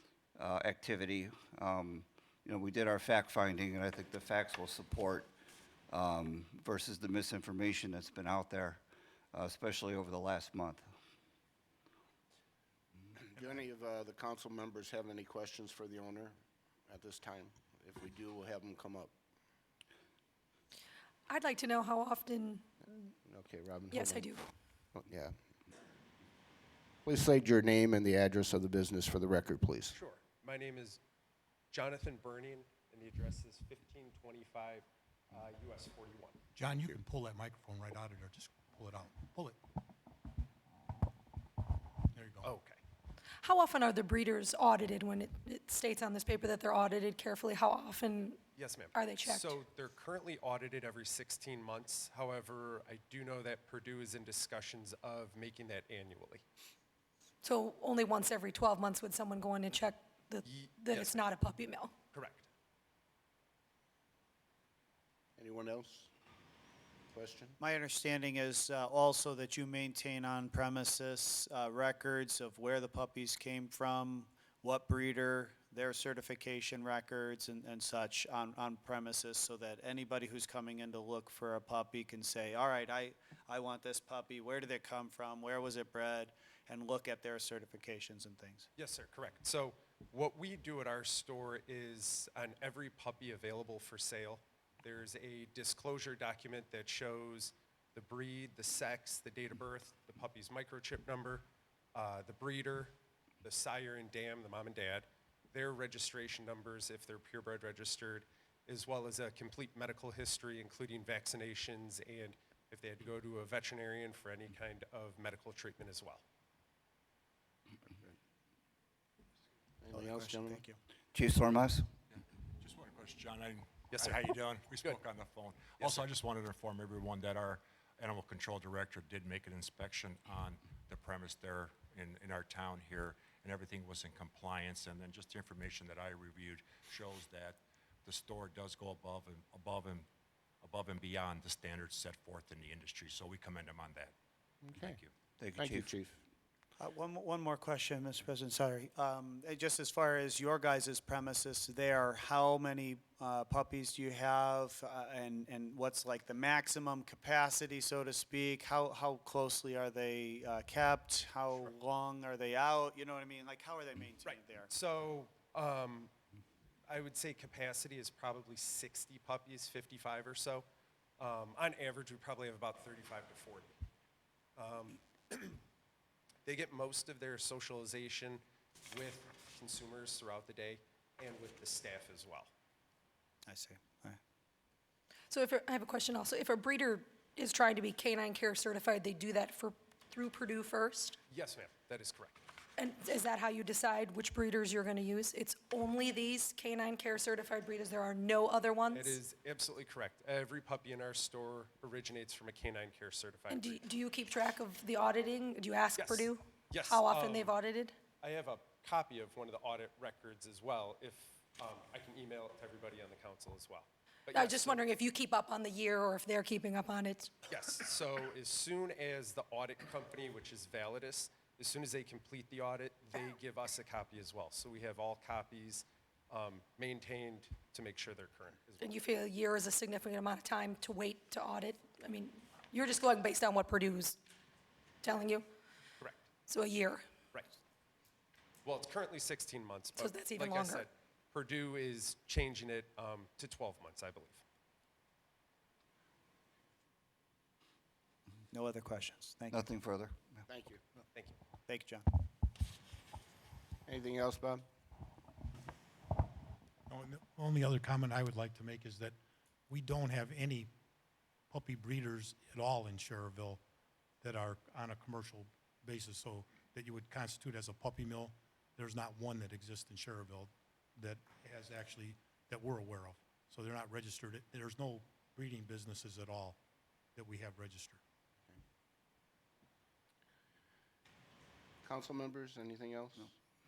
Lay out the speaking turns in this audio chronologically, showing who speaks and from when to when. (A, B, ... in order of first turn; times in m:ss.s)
0:00.4-0:05.3 A
0:05.9-0:08.8 A
0:09.3-0:10.8 A
0:13.2-0:16.3 B
0:16.9-0:19.1 B
0:21.3-0:22.6 C
0:23.2-0:24.3 B
0:23.9-0:24.4 C
0:24.9-0:25.3 B
0:27.0-0:30.0 B
0:29.9-0:31.0 D
0:31.7-0:36.4 D
0:36.6-0:39.6 E
0:42.1-0:42.5 E
0:42.4-0:42.8 D
0:43.4-0:48.4 C
0:48.6-0:56.4 D
0:48.9-0:49.5 C
0:57.4-1:01.9 C
1:00.4-1:01.2 D
1:02.1-1:02.5 D
1:05.4-1:06.1 B
1:07.1-1:07.6 B
1:07.6-1:28.7 F
1:28.8-1:56.2 D
1:59.8-2:00.6 B
1:59.9-2:00.8 F
2:01.1-2:01.8 A
2:02.1-2:20.1 G
2:03.9-2:05.0 D
2:05.8-2:06.1 D
2:20.6-2:24.1 G
2:24.6-2:25.0 B
2:24.8-2:25.1 G
2:25.4-2:25.9 A
2:25.6-2:26.2 B
2:26.8-2:44.7 F
2:44.2-2:46.1 D
2:46.9-2:50.6 D
2:51.2-2:53.7 D
2:54.6-2:55.6 D
2:56.4-3:02.5 D
3:03.4-3:04.2 F
3:05.3-3:11.2 C
3:11.3-3:12.4 D
3:12.8-3:19.2 C
3:18.9-3:23.8 D
3:23.5-3:27.9 C
3:26.0-3:27.6 D
3:28.2-3:34.8 D
3:34.3-3:37.3 C
3:37.5-3:49.0 D
3:48.8-3:54.2 C
3:55.0-3:55.4 C
3:56.5-3:57.0 C
3:58.6-4:04.4 D
4:00.0-4:00.8 C
4:08.5-4:09.6 F
4:09.5-4:10.4 A
4:10.5-4:10.8 B
4:11.7-4:12.0 F
4:13.9-4:14.6 B
4:16.9-4:19.2 E
4:19.7-4:20.7 E
4:21.5-4:23.6 E
4:24.2-4:36.6 E
4:37.2-4:38.0 E
4:41.8-4:43.3 B